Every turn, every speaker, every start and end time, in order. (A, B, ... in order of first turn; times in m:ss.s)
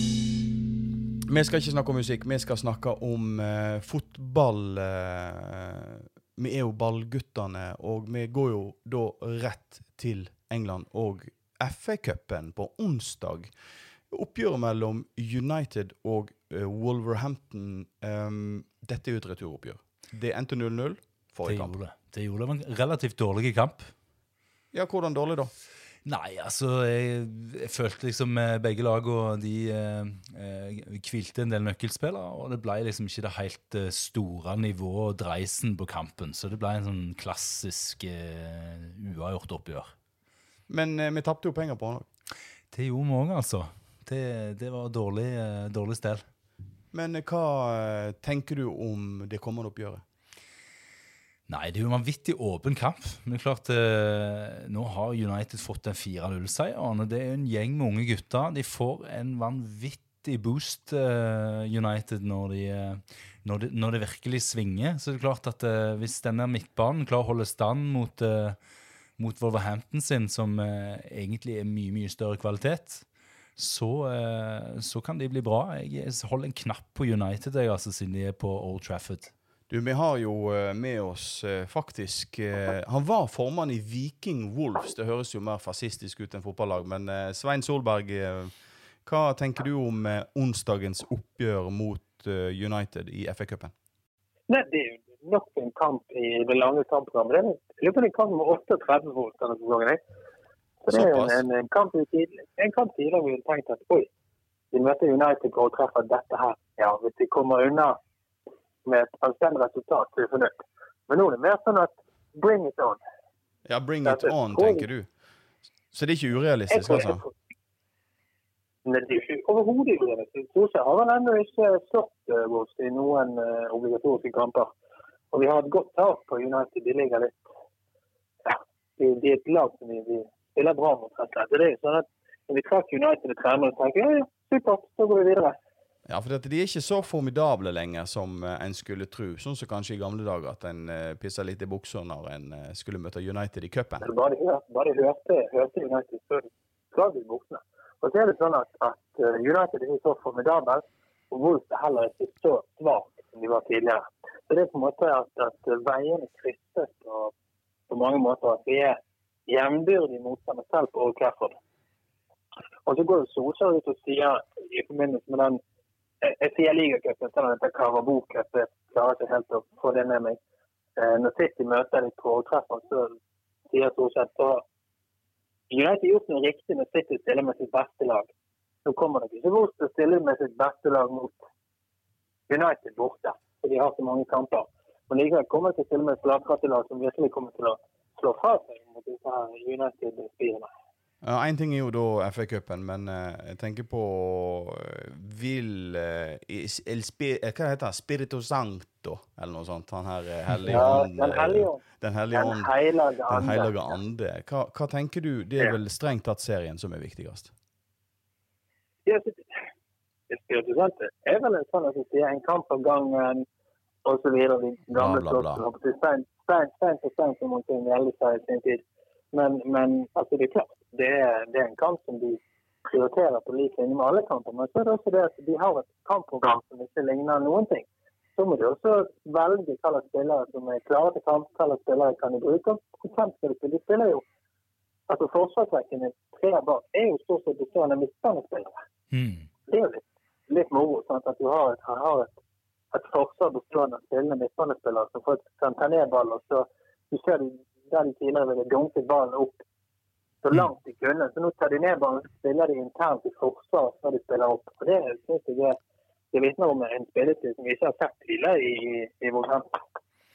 0:01.3-0:13.5 A
0:14.1-0:21.7 A
0:21.4-0:23.9 B
0:24.7-0:25.5 A
0:26.0-0:39.9 B
0:40.7-0:42.0 A
0:42.7-0:46.2 B
0:46.9-0:50.0 A
0:51.5-1:08.6 B
1:09.2-1:13.0 B
1:13.6-1:19.3 B
1:19.7-1:28.5 A
1:29.0-1:33.7 A
1:34.5-1:40.0 C
1:40.8-1:44.1 C
1:40.9-1:41.4 A
1:44.7-1:48.0 C
1:48.8-1:50.5 C
1:51.1-1:53.0 C
1:53.7-1:55.1 A
1:54.0-1:54.9 C
1:55.9-1:57.2 A
1:56.7-1:57.3 C
1:58.8-2:04.7 C
2:05.3-2:07.4 C
2:08.4-2:15.6 C
2:16.1-2:24.0 A
2:24.0-2:37.3 C
2:37.9-2:41.6 C
2:42.8-2:45.6 C
2:46.2-2:50.4 C
2:51.0-2:53.2 C
2:53.7-2:54.6 C
2:55.7-2:58.3 C
2:58.8-3:01.4 C
3:02.5-3:10.7 C
3:11.2-3:22.7 A
3:20.6-3:21.8 C
3:22.3-3:23.8 C
3:23.3-3:27.5 A
3:29.0-3:29.5 C
3:30.3-3:33.5 C
3:34.0-3:38.8 C
3:34.9-3:35.6 A
3:39.3-3:54.2 C
3:55.1-3:58.8 C
3:59.1-3:59.5 B
3:59.7-4:02.3 C
4:02.9-4:09.6 C
4:10.4-4:15.8 C
4:16.3-4:19.8 C